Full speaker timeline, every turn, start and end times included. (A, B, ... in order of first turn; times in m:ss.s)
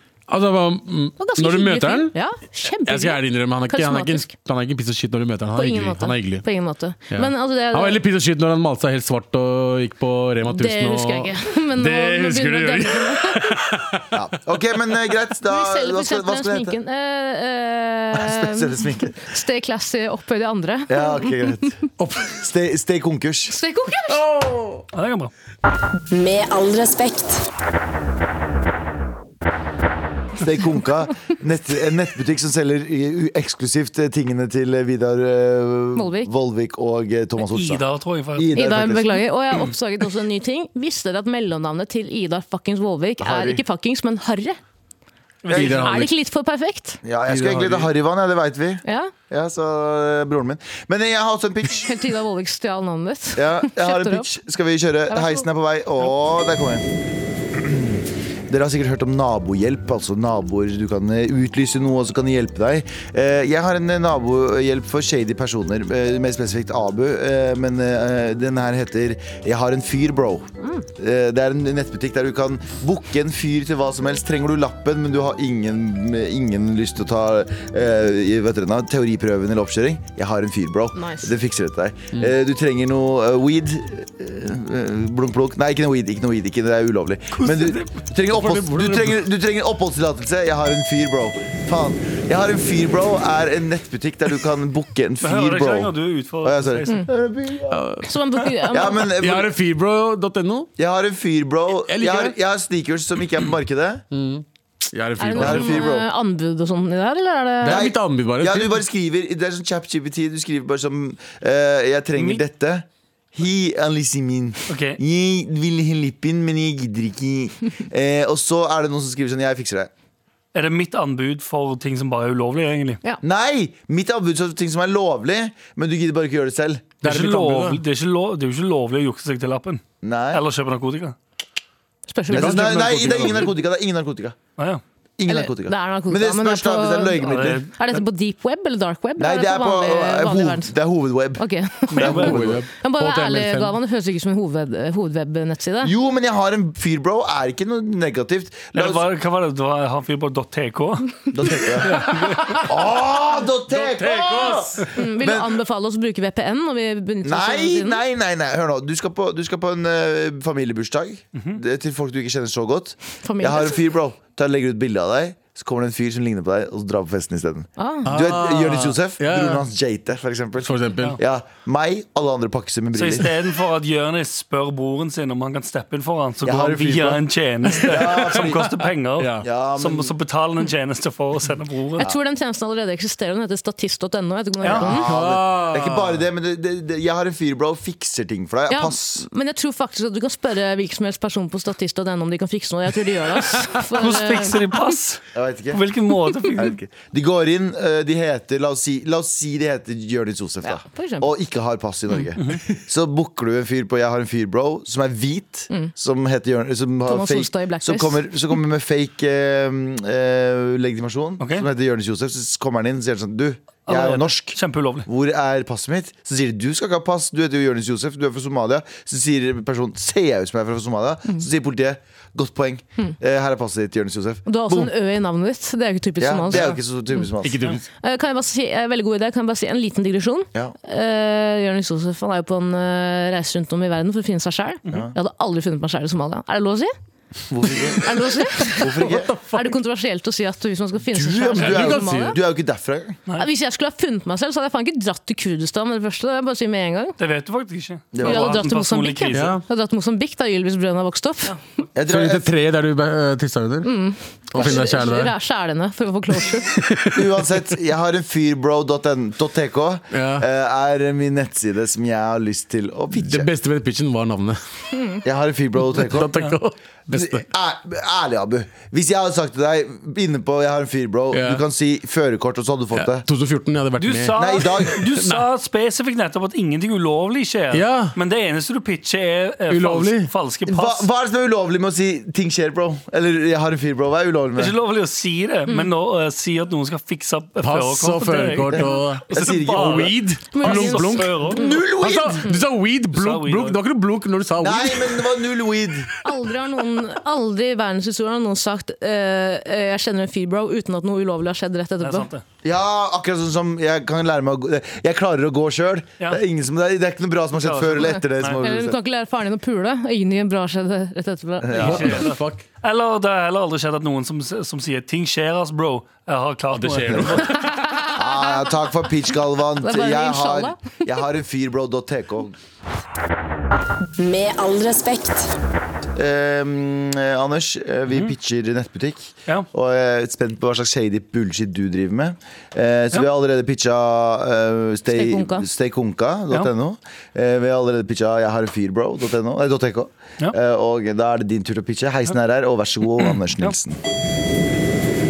0:00.3-0:02.2 A
0:01.2-0:04.3 B
0:02.9-0:06.5 A
0:05.5-0:08.0 B
0:07.1-0:14.2 A
0:10.5-0:13.6 B
0:14.1-0:16.8 C
0:15.5-0:21.7 B
0:18.1-0:19.2 C
0:20.9-0:21.8 C
0:22.0-0:22.4 A
0:22.3-0:23.5 C
0:23.5-0:24.2 B
0:24.1-0:24.8 A
0:24.9-0:25.3 D
0:26.1-0:27.4 E
0:30.4-0:39.2 C
0:36.0-0:36.3 B
0:37.4-0:38.5 D
0:38.6-0:44.6 B
0:43.2-0:43.6 C
0:45.4-0:46.1 D
0:45.5-0:45.8 C
0:45.5-0:46.1 A
0:45.6-0:47.0 B
0:47.0-0:52.0 C
0:47.3-0:47.9 D
0:48.8-0:49.1 B
0:51.7-0:54.3 B
0:53.4-0:56.9 C
0:55.1-0:55.4 B
0:57.5-1:37.8 C
1:10.6-1:10.9 B
1:21.0-1:21.3 B
1:27.4-1:27.9 D
1:28.3-1:29.2 A
1:35.2-1:37.0 D
1:37.7-1:38.0 A
1:38.0-1:39.0 B
1:38.6-1:40.7 A
1:38.7-1:39.5 C
1:40.8-1:44.0 C
1:41.9-1:42.4 A
1:44.1-1:45.9 A
1:45.2-1:47.9 B
1:45.4-1:46.1 C
1:47.6-1:48.8 A
1:47.7-1:59.9 C
1:54.7-1:55.0 D
2:00.5-2:03.0 D
2:03.2-2:06.9 C
2:07.0-2:07.8 A
2:07.0-2:11.2 D
2:10.0-2:10.4 C
2:12.1-2:12.8 B
2:12.3-2:13.5 A
2:12.3-2:14.4 C
2:14.6-2:14.8 D
2:15.2-2:17.6 C
2:15.3-2:20.7 B
2:17.2-2:18.0 D
2:19.2-2:21.4 C
2:21.4-2:22.3 B
2:21.9-2:22.4 D
2:22.0-2:22.6 C
2:22.1-2:23.8 A
2:22.8-2:25.9 B
2:25.8-2:29.0 C
2:28.7-2:31.3 D
2:31.3-2:32.0 C
2:31.8-2:32.6 D
2:31.9-2:32.7 A
2:32.6-2:35.6 C
2:33.7-2:34.9 A
2:34.9-2:38.0 B
2:37.2-2:53.3 C
2:43.2-2:43.8 B
2:47.8-2:48.1 B
2:48.1-2:49.6 A
2:50.6-2:51.2 A
2:53.0-3:02.1 D
2:56.4-2:57.2 C
2:57.8-2:58.7 C
2:57.8-2:58.6 A
2:59.2-2:59.5 A
2:59.4-3:00.1 C
3:02.0-3:05.1 B
3:04.6-3:04.9 D
3:04.7-3:09.3 C
3:05.0-3:06.2 A
3:08.7-3:14.8 B
3:14.0-3:16.7 D
3:15.3-3:15.8 C
3:16.6-3:44.9 C
3:20.6-3:21.3 B
3:27.1-3:28.6 B
3:31.4-3:31.7 D
3:33.9-3:35.1 D
3:44.5-3:47.2 B
3:46.2-3:47.8 C
3:47.4-3:47.8 A
3:48.0-3:56.9 B
3:54.9-3:55.2 C
3:57.5-3:58.2 C
3:58.0-4:02.4 B
3:58.8-3:59.3 C
3:59.0-3:59.7 A
4:01.1-4:03.2 C
4:01.6-4:02.4 A
4:03.4-4:07.2 B
4:07.2-4:09.6 D
4:08.1-4:08.6 C
4:08.2-4:11.6 B
4:09.3-4:09.6 A
4:12.0-4:12.5 C
4:12.1-4:13.9 A
4:13.8-4:16.7 B
4:14.5-4:15.3 A
4:16.8-4:17.3 A
4:17.1-4:23.5 C
4:20.1-4:20.4 A
4:23.1-4:24.6 A
4:24.9-4:25.2 B
4:25.2-4:26.3 C
4:25.9-4:27.5 A
4:27.1-4:33.2 C
4:31.3-4:31.6 A
4:33.0-4:35.5 A
4:34.0-4:41.1 D
4:34.4-4:35.0 C
4:37.7-4:38.2 A
4:39.7-4:40.3 A
4:40.7-4:44.7 C
4:44.6-4:51.6 D
4:47.6-4:55.2 A
4:48.7-4:50.2 C
4:50.5-4:51.8 B
4:51.5-4:52.4 C
4:53.1-4:53.8 D
4:54.6-4:56.1 C
4:56.2-5:02.3 B
5:02.0-5:02.4 D
5:02.6-5:09.0 C
5:07.6-5:08.6 D
5:08.6-5:12.1 B
5:11.6-5:12.2 C
5:11.8-5:12.6 A
5:11.8-5:17.5 D
5:16.7-5:17.7 A
5:17.5-5:18.7 B
5:18.2-5:22.6 C
5:19.8-5:21.0 B
5:24.2-5:25.5 E
5:26.2-5:44.0 C
5:35.1-5:35.7 B